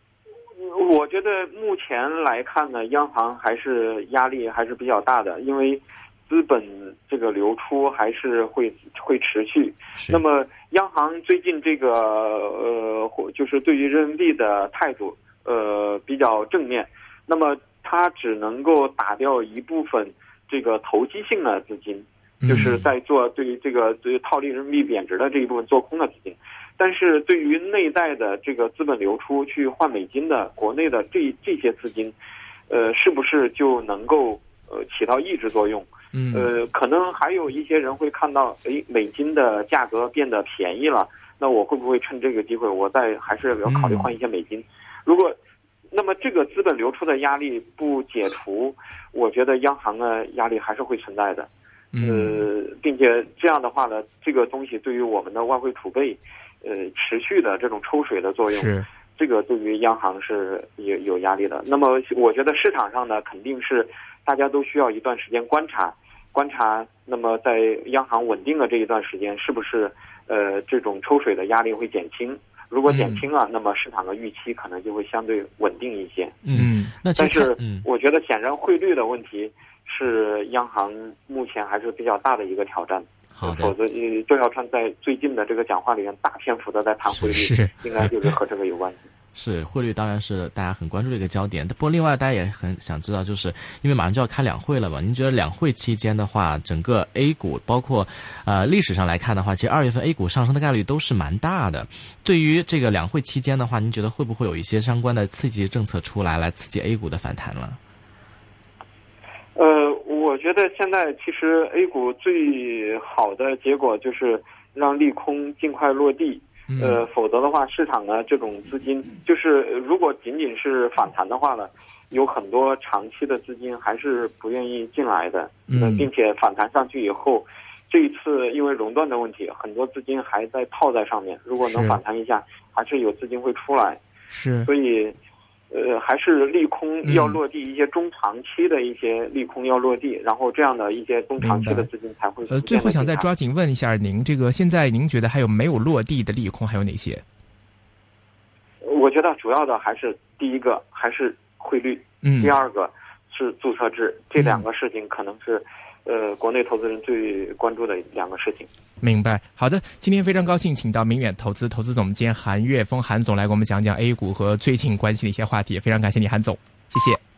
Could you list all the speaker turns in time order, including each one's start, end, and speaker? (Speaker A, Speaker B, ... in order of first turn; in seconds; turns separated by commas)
Speaker A: 0.6-32.1, Speaker B: 22.4-22.9, Speaker A: 32.7-45.4, Speaker B: 36.1-36.5, Speaker B: 43.7-44.1, Speaker A: 45.9-51.5, Speaker B: 51.9-52.5, Speaker A: 52.0-76.4, Speaker B: 58.5-58.9, Speaker C: 72.9-73.3, Speaker C: 76.5-77.8, Speaker B: 76.5-77.0, Speaker A: 77.2-89.0, Speaker C: 83.3-83.7, Speaker B: 87.3-88.3, Speaker C: 89.3-107.8, Speaker A: 109.6-134.0, Speaker B: 116.7-117.0, Speaker B: 125.7-126.1, Speaker B: 131.6-132.0, Speaker B: 134.3-134.7, Speaker A: 134.7-135.2, Speaker A: 135.7-143.3, Speaker B: 137.0-137.4, Speaker B: 141.4-141.9, Speaker B: 142.5-147.2, Speaker A: 148.8-158.7, Speaker B: 152.2-152.5, Speaker B: 154.4-154.7, Speaker B: 159.0-167.2